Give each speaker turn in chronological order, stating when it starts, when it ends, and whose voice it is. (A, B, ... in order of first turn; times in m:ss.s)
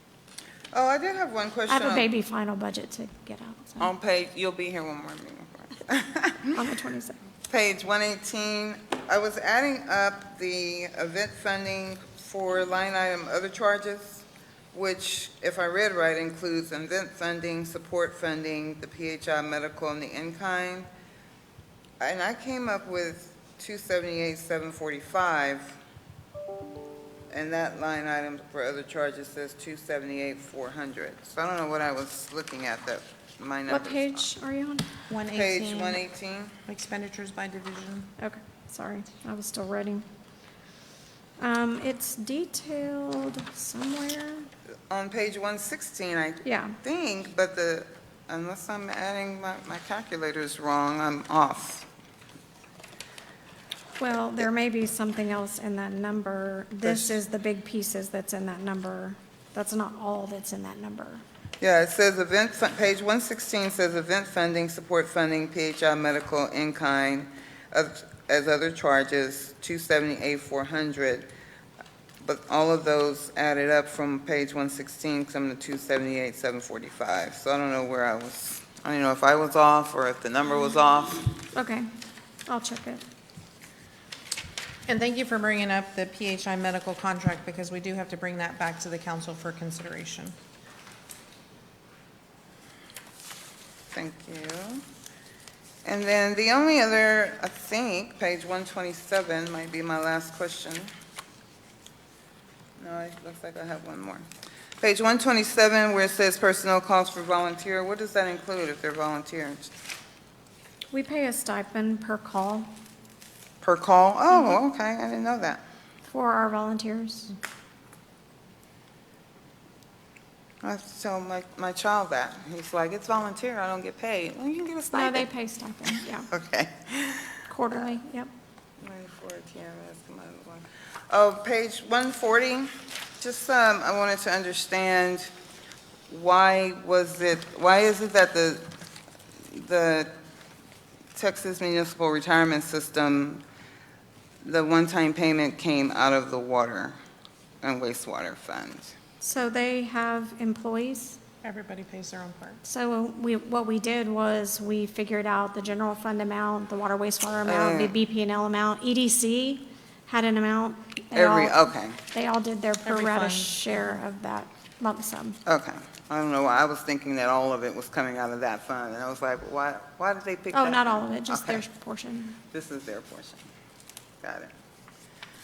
0:00.7-0:02.1 A
0:01.7-0:03.9 B
0:03.8-0:06.6 A
0:06.5-0:07.2 B
0:07.5-0:20.9 A
0:22.0-0:25.8 A
0:27.3-0:34.3 A
0:33.7-0:34.9 B
0:35.1-0:36.0 C
0:35.3-0:36.6 A
0:36.7-0:38.1 C
0:38.2-0:40.0 B
0:41.4-0:44.5 B
0:44.9-0:51.9 A
0:46.4-0:46.8 B
0:54.0-1:01.2 B
1:01.6-1:11.3 A
1:12.2-1:21.3 A
1:21.5-1:21.9 B
1:22.4-1:23.0 B
1:24.9-1:30.3 C
1:33.9-1:34.8 A
1:35.8-1:40.9 A
1:42.8-1:44.3 A
1:44.8-1:49.7 A
1:50.9-1:52.7 B
1:53.6-1:55.6 A
1:56.0-1:57.4 B
2:00.6-2:05.3 A
2:04.9-2:06.3 B
2:06.3-2:07.9 A
2:07.5-2:08.3 B
2:08.8-2:15.3 A
2:16.1-2:18.7 A
2:19.5-2:20.1 A
2:21.1-2:23.4 A
2:24.4-2:27.0 A
2:27.6-2:28.9 A
2:29.2-2:31.2 B
2:31.4-2:32.6 C
2:32.6-2:45.4 B
2:37.4-2:38.0 A
2:41.1-2:42.0 A
2:42.8-2:44.0 C
2:45.4-2:51.6 A
2:50.5-2:52.4 B
2:52.5-2:53.4 A
2:54.2-2:54.5 A